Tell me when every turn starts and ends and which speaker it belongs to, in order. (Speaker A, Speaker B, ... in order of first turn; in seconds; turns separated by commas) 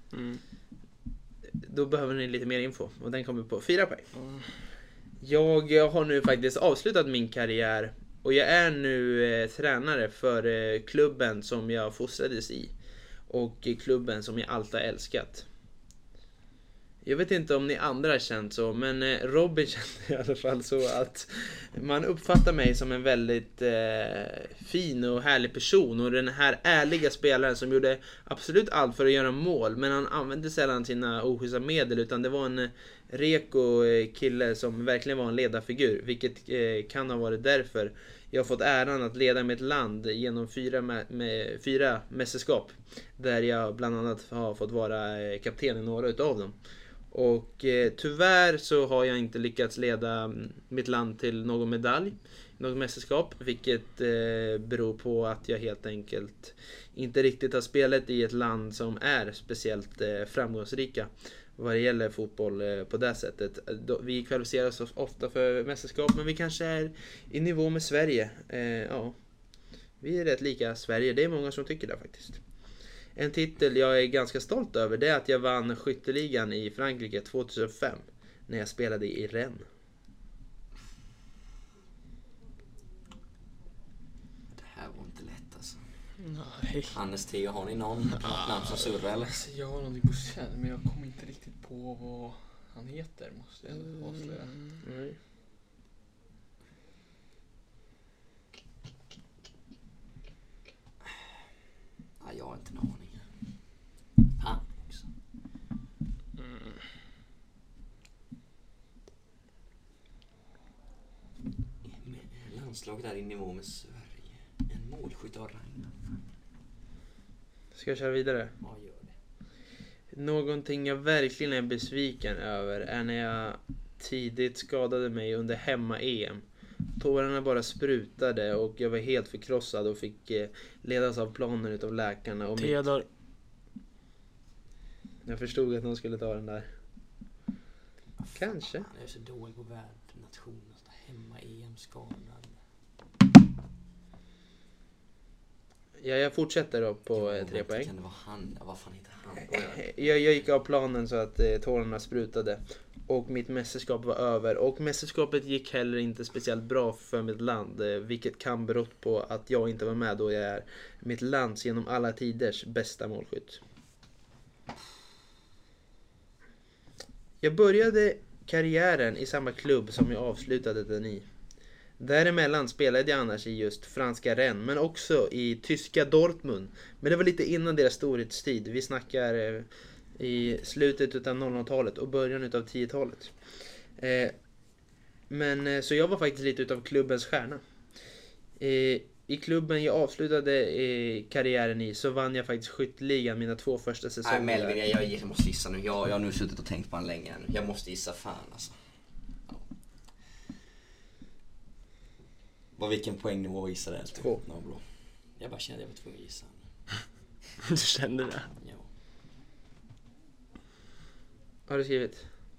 Speaker A: 0.1-0.4, Speaker B: 1.6-4.1, Speaker A: 4.2-4.5, Speaker B: 5.2-12.7, Speaker B: 13.3-15.5, Speaker B: 17.0-46.5, Speaker B: 47.1-69.2, Speaker B: 70.0-72.4, Speaker B: 73.2-79.7, Speaker C: 84.5-85.8, Speaker A: 86.2-87.0, Speaker C: 86.9-89.3, Speaker A: 88.1-88.5, Speaker D: 89.2-94.6, Speaker B: 94.8-95.2, Speaker C: 102.2-103.2, Speaker C: 104.4-105.1, Speaker C: 111.8-116.2, Speaker B: 117.7-118.5, Speaker C: 118.6-119.1, Speaker B: 120.1-126.4, Speaker B: 127.0-132.9, Speaker A: 132.6-133.0, Speaker B: 135.2-136.7, Speaker C: 138.2-142.5, Speaker B: 138.3-138.9, Speaker B: 146.0-147.9, Speaker C: 147.2-149.9, Speaker B: 149.4-163.6, Speaker B: 167.4-171.2, Speaker B: 172.0-183.3, Speaker B: 184.0-184.4, Speaker B: 185.3-187.6, Speaker B: 188.6-194.8, Speaker C: 194.2-198.7, Speaker C: 202.8-204.8, Speaker C: 205.3-206.6, Speaker A: 207.7-208.5, Speaker C: 208.6-208.8, Speaker B: 211.7-212.2